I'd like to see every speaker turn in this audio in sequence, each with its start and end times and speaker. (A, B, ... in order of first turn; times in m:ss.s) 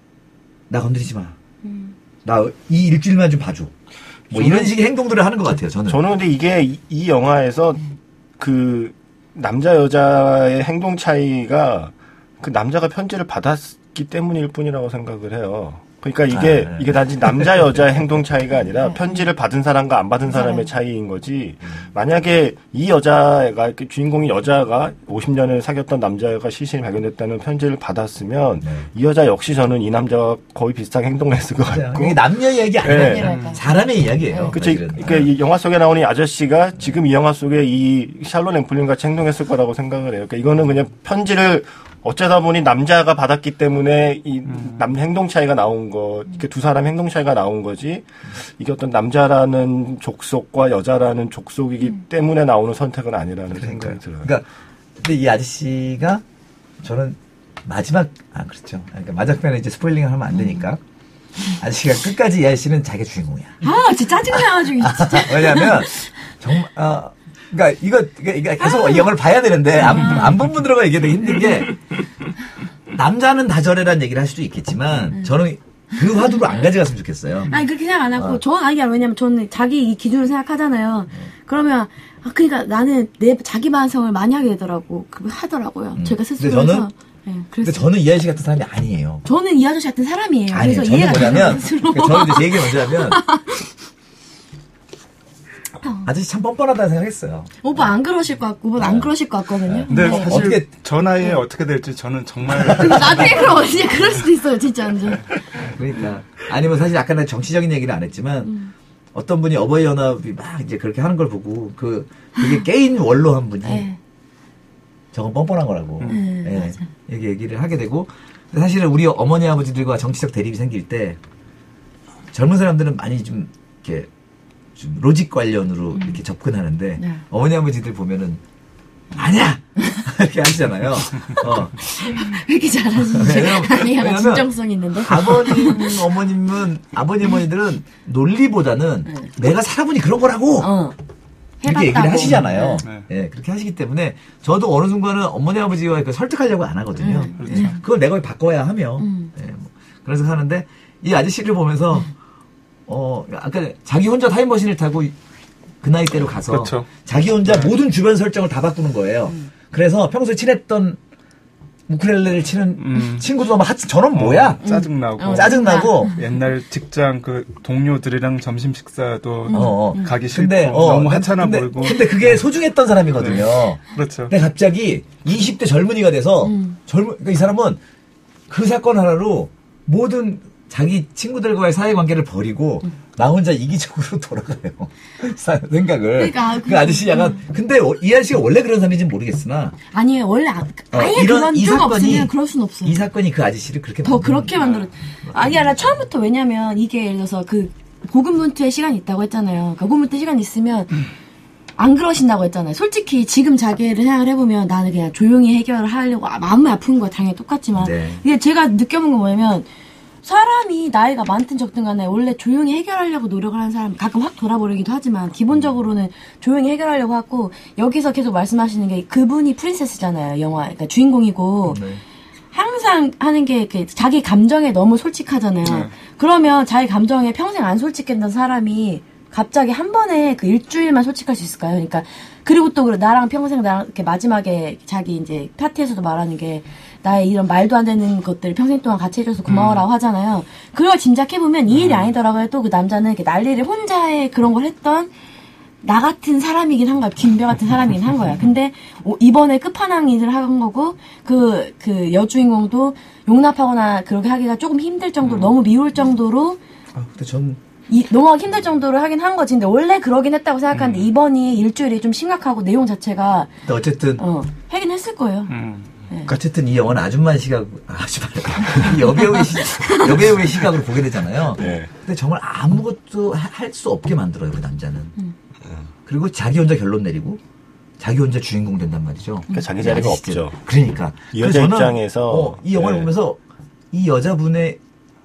0:00.7-0:01.4 A
0:01.6-0:01.9 B
0:02.2-0:03.7 A
0:04.3-0:06.0 A
0:04.3-0:04.7 C
0:05.9-0:07.8 C
0:08.4-0:32.2 C
0:16.3-0:17.8 A
0:18.8-0:19.2 B
0:20.3-0:20.6 B
0:31.6-0:35.3 A
0:32.8-0:33.3 C
0:32.8-0:33.6 B
0:33.0-0:33.6 D
0:34.3-0:34.6 B
0:34.5-0:54.3 C
0:44.5-0:44.8 D
0:53.5-0:54.4 A
0:55.0-0:56.2 A
0:56.8-1:00.8 A
1:01.5-1:03.6 A
1:03.6-1:06.1 B
1:04.3-1:11.9 A
1:08.6-1:09.1 B
1:09.8-1:10.4 B
1:12.9-1:17.5 A
1:17.5-1:27.9 B
1:18.1-1:18.4 A
1:26.0-1:26.9 A
1:27.6-1:29.2 A
1:29.2-1:33.7 B
1:30.5-1:33.2 A
1:35.8-1:36.1 B
1:36.0-1:37.6 A
1:37.6-1:40.4 B
1:38.8-1:39.1 A
1:39.6-1:40.7 A
1:39.9-1:43.6 D
1:42.6-1:43.2 A
1:42.7-1:45.3 B
1:45.5-1:48.5 A
1:48.4-1:48.7 B
1:49.1-1:53.9 A
1:53.6-1:54.0 B
1:55.1-2:01.2 A
1:56.0-1:56.8 B
2:02.3-2:04.1 A
2:04.8-2:08.4 A
2:09.1-2:12.2 A
2:11.2-2:16.0 B
2:13.1-2:20.7 A
2:20.6-2:21.0 B
2:21.6-2:22.8 B
2:21.6-2:32.1 A
2:27.0-2:27.8 B
2:27.4-2:27.8 D
2:29.0-2:29.3 B
2:32.9-2:35.2 A
2:35.8-2:41.0 A
2:36.5-2:36.9 D
2:37.4-2:37.7 D
2:41.9-2:44.7 A
2:42.8-2:43.3 D
2:44.1-2:52.4 D
2:44.6-2:46.2 B
2:45.2-2:46.1 A
2:49.5-2:50.1 B
2:49.5-2:57.8 A
2:53.2-2:54.3 D
2:56.4-2:56.8 B
2:58.5-3:09.8 A
3:06.2-3:07.4 B
3:09.9-3:13.0 B
3:10.9-3:12.3 A
3:12.8-3:14.5 A
3:14.0-3:21.0 B
3:14.5-3:14.9 D
3:15.2-3:16.0 A
3:21.8-3:29.7 B
3:27.8-3:28.2 A
3:30.2-3:41.8 B
3:41.7-3:42.0 A
3:42.5-4:05.1 B
3:45.6-3:45.9 D
3:59.5-3:59.8 D
4:01.8-4:02.1 D
4:05.8-4:16.6 B
4:15.2-4:15.5 D
4:16.9-4:17.6 A
4:17.9-4:23.5 B
4:20.7-4:21.1 D
4:23.6-4:24.2 A
4:24.2-4:25.5 B
4:25.5-4:25.9 D
4:26.2-4:35.1 A
4:28.8-4:30.1 B
4:31.5-4:31.9 C
4:36.0-4:37.4 A
4:38.0-4:43.4 A
4:39.5-4:40.6 C
4:41.3-4:43.1 C
4:43.9-4:44.8 A